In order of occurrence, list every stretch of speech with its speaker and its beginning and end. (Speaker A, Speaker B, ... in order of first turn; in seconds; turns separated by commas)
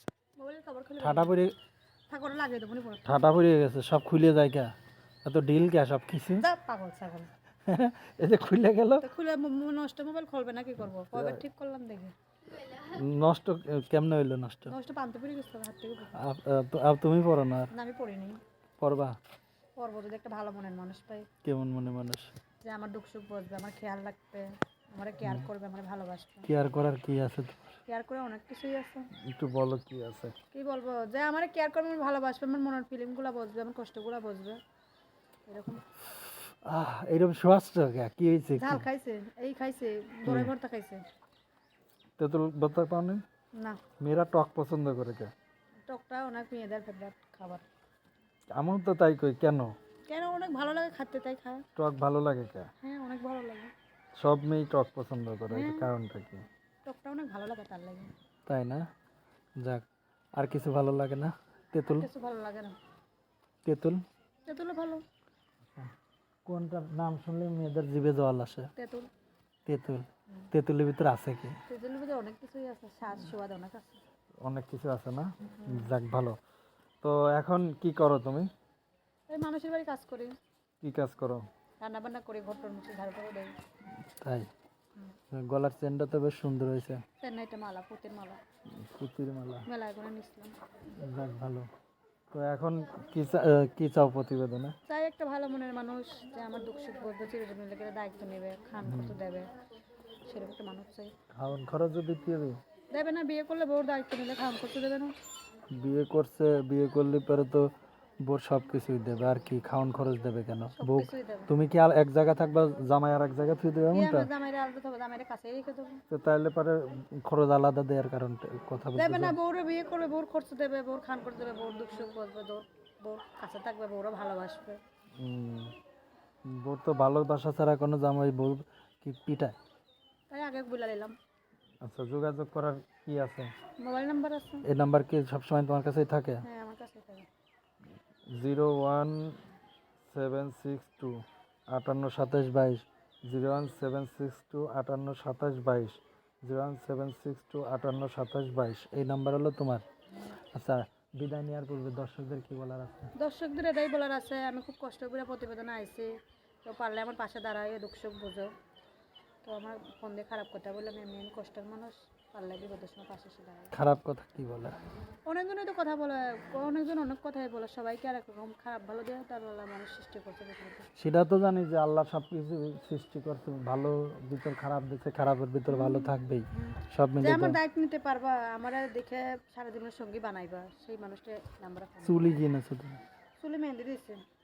Speaker A: 0.4-1.4, Speaker B: 1.0-1.5, Speaker A: 2.1-3.1, Speaker B: 3.0-4.7, Speaker B: 5.2-6.5, Speaker A: 6.4-7.3, Speaker B: 7.7-9.1, Speaker A: 9.0-12.1, Speaker B: 11.1-11.4, Speaker B: 12.6-14.7, Speaker A: 14.7-16.2, Speaker B: 16.1-17.7, Speaker A: 17.7-18.4, Speaker B: 18.8-19.2, Speaker A: 19.8-21.3, Speaker B: 21.4-22.3, Speaker A: 22.6-26.5, Speaker B: 26.5-27.8, Speaker A: 27.9-29.1, Speaker B: 29.2-30.3, Speaker A: 30.5-34.6, Speaker A: 35.5-35.8, Speaker B: 36.6-38.9, Speaker A: 38.6-41.0, Speaker B: 40.2-40.5, Speaker B: 42.2-43.2, Speaker B: 44.0-45.3, Speaker A: 45.9-47.6, Speaker B: 48.5-49.7, Speaker A: 50.1-51.6, Speaker B: 51.8-52.7, Speaker A: 52.8-53.7, Speaker B: 54.2-56.4, Speaker A: 55.5-55.9, Speaker A: 56.8-58.1, Speaker B: 58.5-58.8, Speaker B: 60.4-62.1, Speaker A: 61.8-62.8, Speaker B: 63.6-64.0, Speaker A: 64.5-65.0, Speaker B: 66.5-68.7, Speaker A: 68.8-69.1, Speaker B: 69.7-71.6, Speaker A: 71.7-74.0, Speaker B: 74.4-76.4, Speaker A: 75.6-75.9, Speaker B: 77.0-78.5, Speaker A: 79.3-80.3, Speaker B: 80.8-81.4, Speaker A: 81.8-83.5, Speaker B: 84.2-84.5, Speaker B: 85.3-87.0, Speaker A: 87.2-88.4, Speaker B: 88.8-89.7, Speaker A: 89.7-90.5, Speaker B: 91.0-91.7, Speaker B: 92.3-94.7, Speaker A: 94.9-99.5, Speaker B: 98.8-99.2, Speaker A: 100.2-101.1, Speaker B: 101.3-102.6, Speaker A: 102.9-105.1, Speaker B: 105.7-107.7, Speaker B: 108.2-114.3, Speaker A: 110.8-111.5, Speaker A: 113.9-116.0, Speaker B: 116.1-119.3, Speaker A: 118.9-124.8, Speaker B: 125.2-125.7, Speaker B: 126.4-129.6, Speaker A: 130.3-131.1, Speaker B: 131.8-133.5, Speaker A: 133.8-134.6, Speaker B: 134.6-136.4, Speaker A: 136.4-137.2, Speaker B: 138.3-139.3, Speaker B: 140.1-149.8, Speaker B: 150.5-153.1, Speaker A: 153.2-156.1, Speaker A: 156.6-158.5, Speaker A: 159.4-163.7, Speaker B: 163.7-164.8, Speaker A: 165.3-170.9, Speaker B: 171.0-177.6, Speaker A: 175.7-182.4, Speaker B: 182.0-183.0, Speaker A: 183.4-184.2